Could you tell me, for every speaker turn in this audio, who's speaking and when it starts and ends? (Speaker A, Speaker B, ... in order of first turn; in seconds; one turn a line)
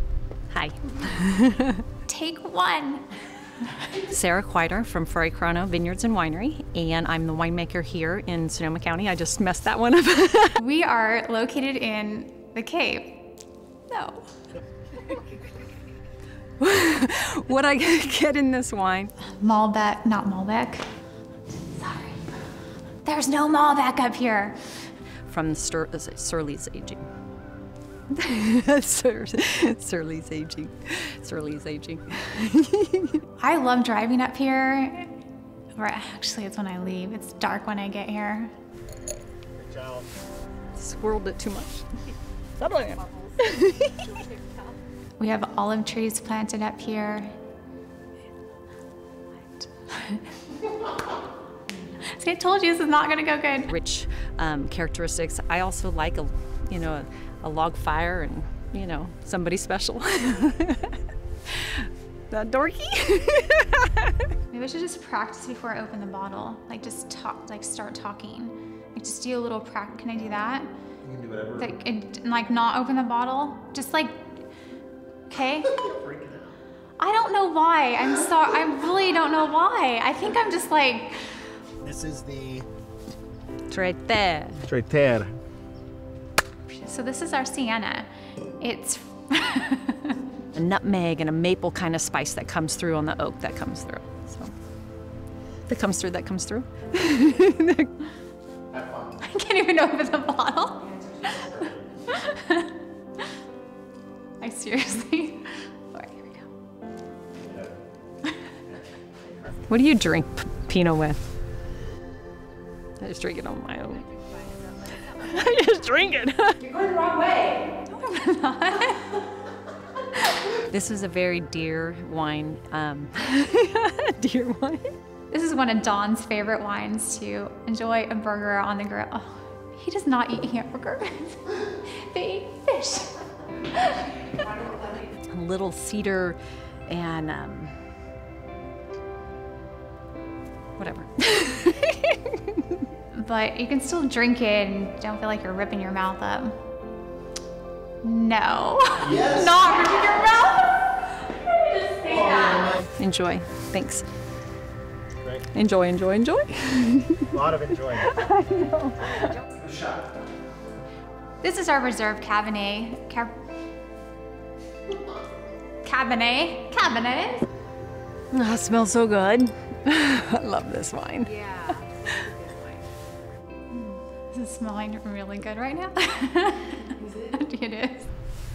Speaker A: 0.5-1.8
Speaker B: 2.1-3.1
Speaker A: 3.9-10.6
Speaker B: 10.6-13.3
Speaker B: 13.9-14.3
Speaker A: 16.6-19.1
Speaker B: 19.2-20.8
Speaker B: 21.7-22.2
Speaker B: 23.0-24.6
Speaker A: 25.3-27.0
Speaker A: 28.1-33.2
Speaker B: 33.4-35.1
Speaker B: 35.7-38.5
Speaker C: 39.5-40.1
Speaker A: 40.7-41.8
Speaker A: 42.6-43.9
Speaker D: 42.7-44.8
Speaker B: 45.2-47.3
Speaker B: 49.5-50.2
Speaker B: 51.9-53.7
Speaker A: 53.5-64.2
Speaker B: 64.5-70.7
Speaker C: 71.0-71.7
Speaker B: 71.6-74.3
Speaker B: 75.3-75.7
Speaker C: 75.7-76.5
Speaker B: 77.0-81.4
Speaker C: 81.8-82.7
Speaker A: 83.7-84.6
Speaker C: 84.7-85.3
Speaker B: 86.7-88.1
Speaker B: 88.6-90.2
Speaker A: 90.5-94.5
Speaker A: 95.7-97.9
Speaker C: 98.7-99.2
Speaker B: 99.2-101.5
Speaker C: 101.2-101.8
Speaker B: 102.1-102.7
Speaker B: 104.4-106.5
Speaker C: 107.4-107.8
Speaker C: 108.7-109.7
Speaker A: 109.7-111.2
Speaker A: 113.0-114.0
Speaker D: 114.2-115.8
Speaker A: 115.2-117.5
Speaker B: 117.8-119.1
Speaker A: 120.6-124.9
Speaker B: 125.3-133.1
Speaker B: 133.7-134.1
Speaker A: 135.3-137.7
Speaker A: 140.8-142.6
Speaker B: 143.1-146.6
Speaker B: 148.0-150.7
Speaker C: 149.0-149.6
Speaker A: 149.2-149.8
Speaker B: 151.4-152.6
Speaker A: 152.7-154.0
Speaker A: 155.5-157.4
Speaker C: 157.3-158.1
Speaker A: 158.0-159.3
Speaker C: 159.5-160.0
Speaker B: 161.4-163.3
Speaker B: 165.8-167.5
Speaker A: 168.3-171.3
Speaker D: 171.2-173.1
Speaker B: 173.7-178.1